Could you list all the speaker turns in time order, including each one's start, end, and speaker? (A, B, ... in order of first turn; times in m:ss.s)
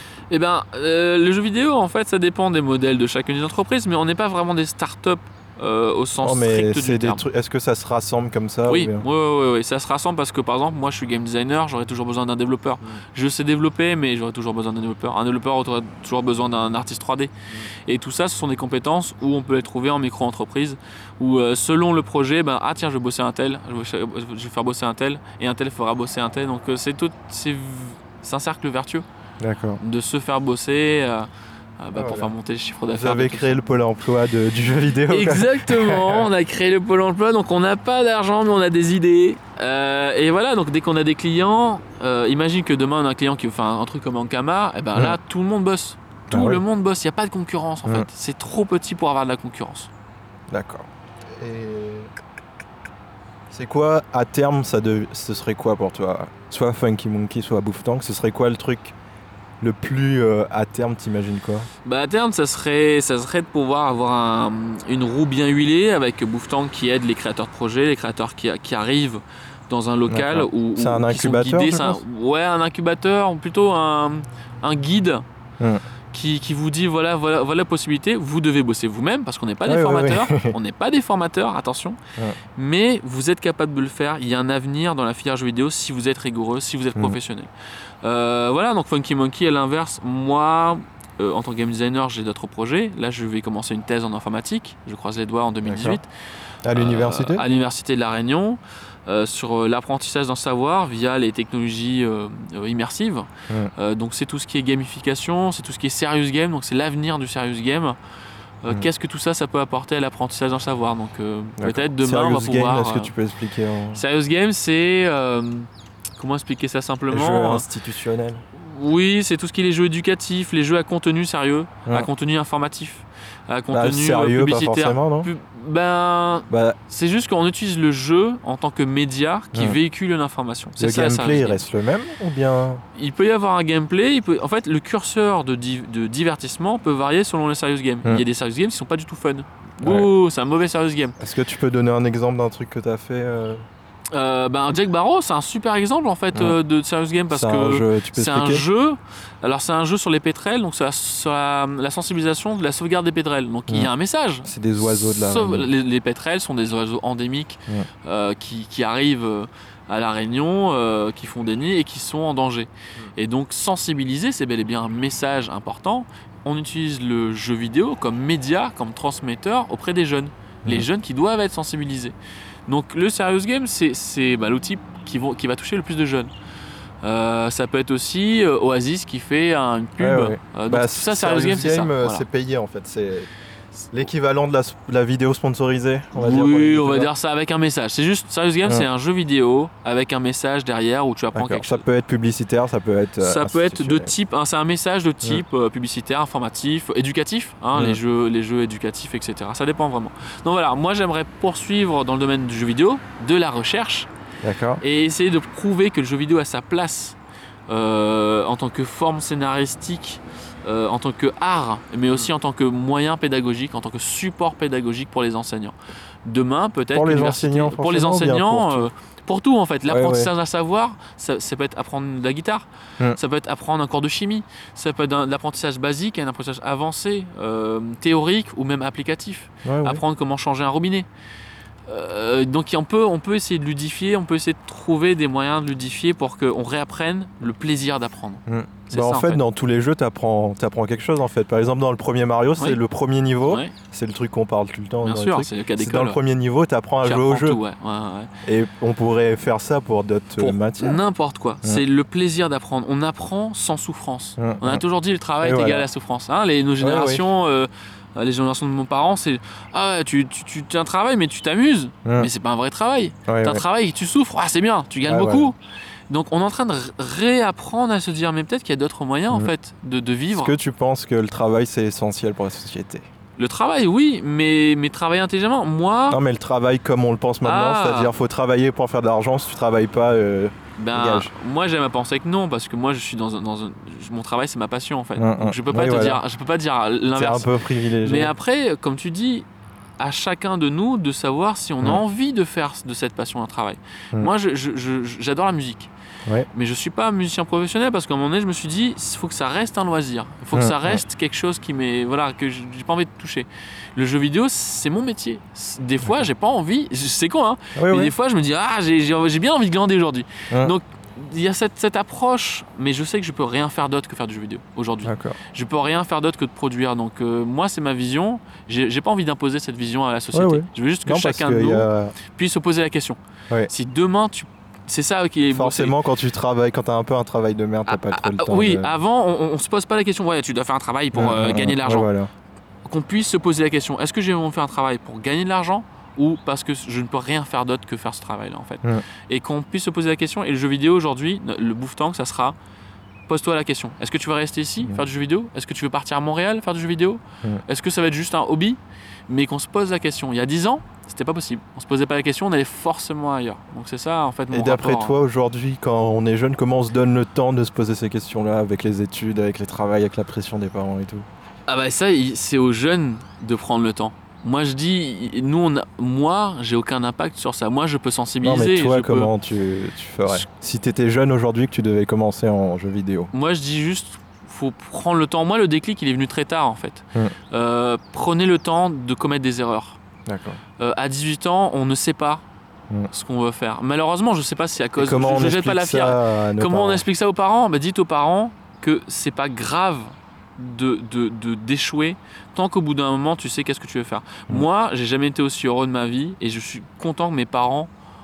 0:00.3-0:07.2 A
0:06.2-0:09.0 B
0:08.7-0:17.3 A
0:17.8-0:29.0 A
0:29.4-0:29.8 B
0:29.8-0:33.6 A
0:31.9-0:32.3 B
0:32.9-0:36.2 B
0:35.1-0:49.9 A
0:46.3-0:46.6 B
0:50.5-0:52.1 B
0:53.5-0:58.9 B
0:59.6-1:01.7 B
1:01.8-1:15.2 A
1:10.1-1:12.0 B
1:16.1-1:22.0 A
1:19.6-1:20.5 B
1:22.6-1:27.5 A
1:28.0-1:36.1 A
1:35.6-1:36.0 B
1:36.6-1:37.4 B
1:36.7-1:48.0 A
1:48.6-1:53.1 A
1:51.6-1:54.0 B
1:53.9-1:57.6 A
1:57.1-1:58.4 B
1:58.5-2:11.6 A
2:03.7-2:05.3 B
2:06.5-2:06.8 B
2:09.5-2:09.8 B
2:10.8-2:12.8 B
2:12.9-2:21.2 A
2:19.8-2:20.1 B
2:21.2-2:23.6 B
2:24.1-2:52.1 A
2:27.3-2:28.6 B
2:34.4-2:35.6 B
2:52.7-2:56.3 A
2:57.0-3:02.2 A
3:00.0-3:03.3 B
3:03.9-3:07.1 B
3:06.2-3:11.8 A
3:11.3-3:14.1 B
3:13.2-3:24.1 A
3:17.7-3:18.0 B
3:24.4-3:24.8 B
3:24.8-3:27.2 A
3:27.7-3:51.1 A
3:36.9-3:38.8 B
3:39.9-3:40.3 B
3:49.6-3:50.0 B
3:51.9-3:59.4 A
3:58.5-4:07.6 B
4:05.0-4:06.2 A
4:07.0-4:08.3 A
4:08.4-4:11.0 B
4:10.4-4:25.6 A
4:14.4-4:14.8 B
4:15.4-4:15.9 B
4:16.8-4:17.2 B
4:23.3-4:23.6 B
4:25.0-4:25.5 B
4:26.1-4:30.5 A
4:30.3-4:33.0 B
4:33.4-4:36.2 A
4:36.1-4:41.3 B
4:37.4-4:38.1 A
4:40.8-4:47.5 A
4:45.2-4:46.2 B
4:47.2-4:48.3 B
4:48.0-4:49.5 A
4:50.0-4:55.9 A
4:56.5-5:25.9 A
5:00.5-5:01.0 B
5:07.8-5:08.1 B
5:15.0-5:15.4 B
5:20.3-5:22.1 B
5:25.5-5:28.9 B
5:27.9-5:32.1 A
5:31.1-5:32.3 B
5:32.8-5:42.6 A
5:43.3-5:55.1 A
5:54.5-6:01.2 B
6:01.7-6:09.3 A
6:08.4-6:13.3 B
6:13.3-6:20.0 A
6:20.2-6:20.6 B
6:20.8-6:22.4 A
6:23.1-6:37.9 A
6:25.0-6:27.0 B